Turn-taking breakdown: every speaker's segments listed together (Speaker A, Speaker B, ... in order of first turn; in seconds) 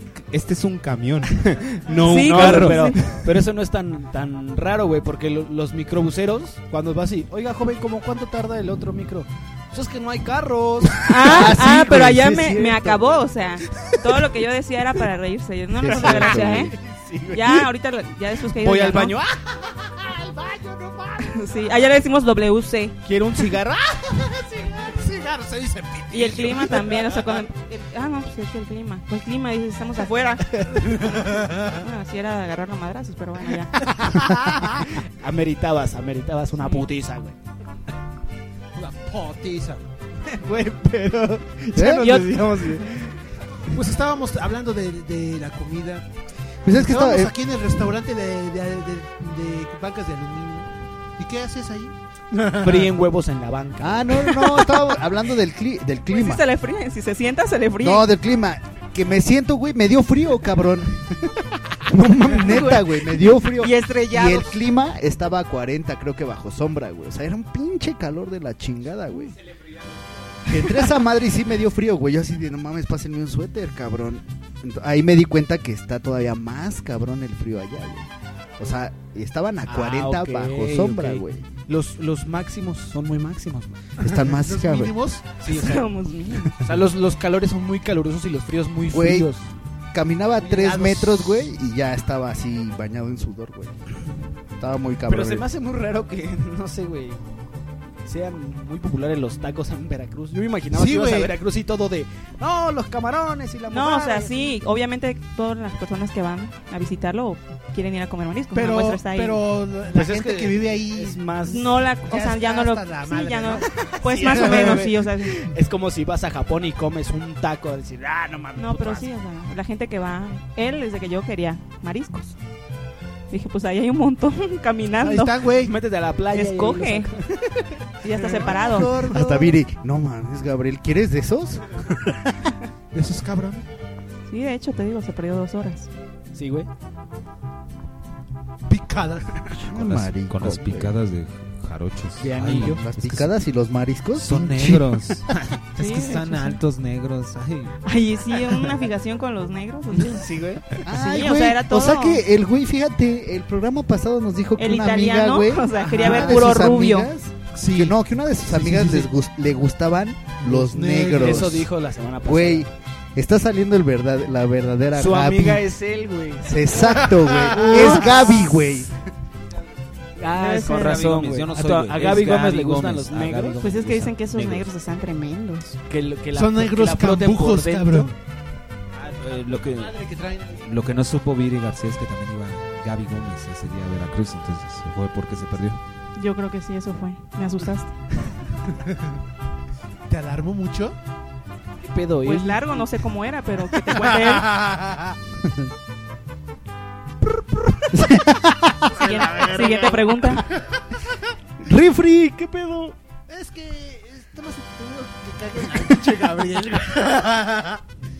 Speaker A: 0.2-2.9, 139.7-143.3, 144.2-147.8, 170.6-174.7, 179.0-180.1, 180.6-185.8
Speaker B: 1.9-11.1, 15.9-17.6, 18.6-19.4, 23.0-24.1, 33.9-37.4, 40.3-43.1, 52.4-54.1, 79.7-83.8, 85.4-85.8, 86.6-89.4, 95.1-97.2, 98.0-104.5, 109.9-111.8, 114.0-119.1, 125.6-128.9, 136.3-136.7, 142.2-142.8, 150.0-150.6, 160.9-162.7, 164.9-166.6, 170.2-173.6, 175.9-178.1, 191.8-192.8
Speaker C: 1.9-3.0, 11.0-16.7, 17.3-19.1, 21.2-23.0, 26.1-33.7, 42.0-42.3, 56.1-58.1, 63.6-64.5, 85.5-86.5, 103.7-109.4, 111.4-115.4, 118.5-122.4, 123.3-125.4, 126.3-127.1, 128.0-129.0, 134.3-135.9, 145.8-146.6, 147.8-150.2, 150.8-152.2, 154.6-157.1, 167.8-168.2, 170.3-171.1, 173.6-175.8, 186.2-187.9, 192.2-194.6, 198.9-200.4
Speaker D: 11.1-13.2, 15.8-16.7, 41.7-42.2, 46.6-47.3, 53.8-56.4, 57.8-61.1, 61.9-69.3, 70.5-81.5, 84.0-84.9, 88.9-89.3, 89.9-93.8, 94.6-95.5, 129.1-132.3, 139.5-140.9, 142.5-145.1, 150.8-161.7, 162.2-165.6, 166.4-168.9, 197.9-198.5, 201.7-202.9
Speaker E: 19.8-21.3, 24.2-27.2, 30.9-31.8, 38.7-39.8, 43.7-46.0, 46.7-51.9, 52.4-52.9, 84.0-85.3, 90.4-91.3, 100.7-101.3, 108.5-111.3, 112.1-113.7, 114.3-114.8, 125.0-125.7, 128.2-129.5, 132.9-133.6, 138.7-139.5, 156.0-156.3, 157.5-157.9, 158.5-159.1, 160.4-161.4, 166.9-168.1, 176.3-178.1, 179.7-180.6, 188.7-189.1, 190.1-190.9, 193.9-195.1, 199.0-200.0, 203.3-207.8